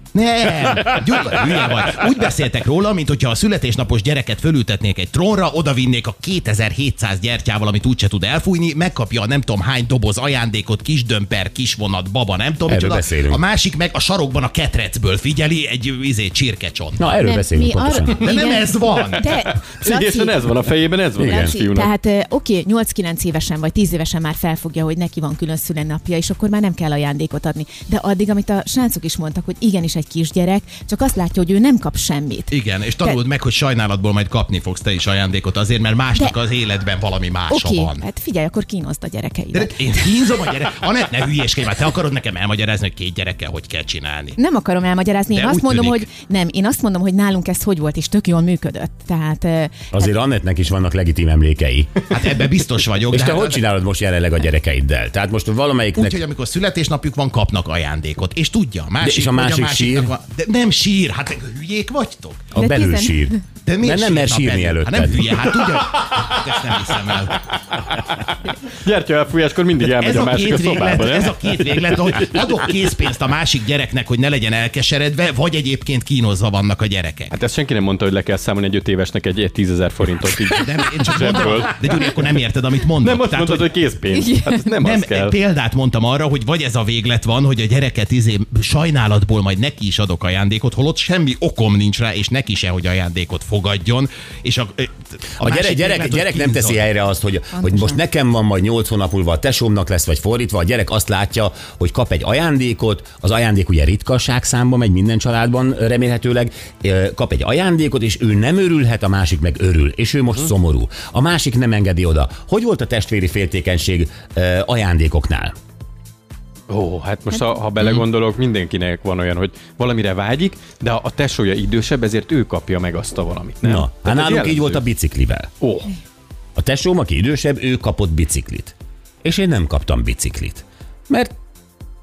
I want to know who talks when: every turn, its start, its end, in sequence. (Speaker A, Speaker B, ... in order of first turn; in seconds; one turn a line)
Speaker A: 0.1-17.1
Speaker B: 12.7-13.4
Speaker B: 17.0-18.2
Speaker C: 17.2-20.6
Speaker A: 18.2-19.6
Speaker D: 19.2-21.9
Speaker C: 21.1-33.2
Speaker B: 21.2-21.6
Speaker A: 32.5-38.1
Speaker C: 37.5-40.3
Speaker A: 39.5-44.4
Speaker C: 44.4-50.0
Speaker A: 45.3-46.1
Speaker B: 49.9-52.0
Speaker A: 52.1-53.6
Speaker B: 53.1-56.2
Speaker A: 56.0-62.5
Speaker B: 59.0-60.1
Speaker B: 62.5-65.4
Speaker C: 62.5-63.3
Speaker A: 63.6-67.5
Speaker D: 68.6-71.6
Speaker A: 69.9-77.3
Speaker D: 77.3-82.1
Speaker A: 80.5-83.8
Speaker D: 83.0-85.3
Speaker C: 84.1-84.6
Speaker A: 84.8-96.9
Speaker B: 95.4-115.5
Speaker C: 97.5-98.0
Speaker D: 116.7-124.8
Speaker B: 123.6-125.5
Speaker D: 125.6-126.0
Speaker B: 126.6-131.3